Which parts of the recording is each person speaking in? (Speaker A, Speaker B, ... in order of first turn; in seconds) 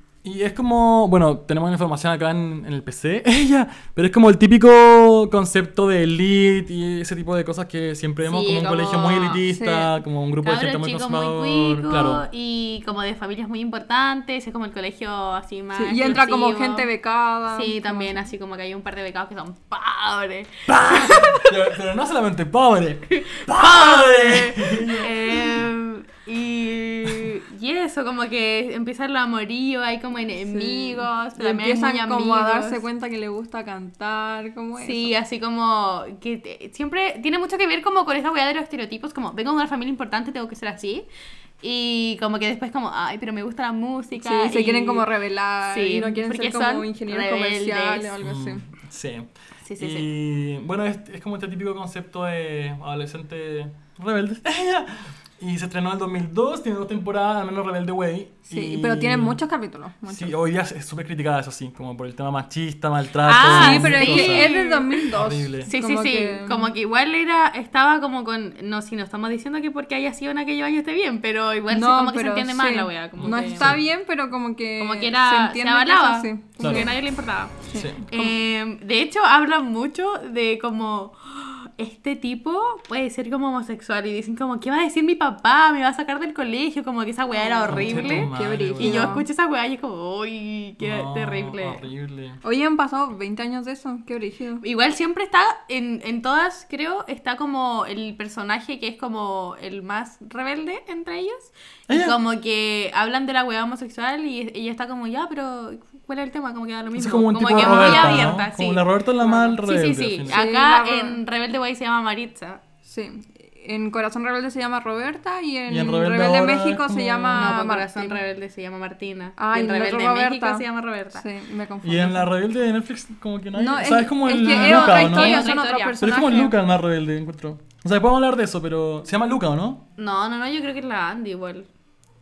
Speaker A: 0.2-12.2, 20.7-25.2, 48.2-59.4, 60.0-64.5, 65.1-65.7, 73.2-73.8, 76.6-76.9, 77.7-78.0, 87.7-89.1, 90.8-92.4, 101.9-102.2, 106.9-110.4, 115.7-117.5, 121.8-129.8
Speaker B: 8.3-9.4, 10.4-16.9, 17.5-21.5, 23.1-32.8, 34.8-41.1, 41.6-45.1, 45.7-48.1, 49.6-50.1, 63.2-65.0, 65.6-73.7, 74.8-77.5, 78.1-91.8, 94.6-112.6, 117.3-121.2, 124.4-126.0, 130.0-131.7
Speaker C: 9.5-9.9, 15.7-18.1, 30.4-35.1, 44.2-48.6, 58.5-60.3, 63.4-66.7, 71.7-76.9, 77.7-78.3, 87.3-89.2, 92.4-94.6, 107.5-108.3, 110.3-111.2, 112.8-118.2, 119.4-122.3, 123.5-126.5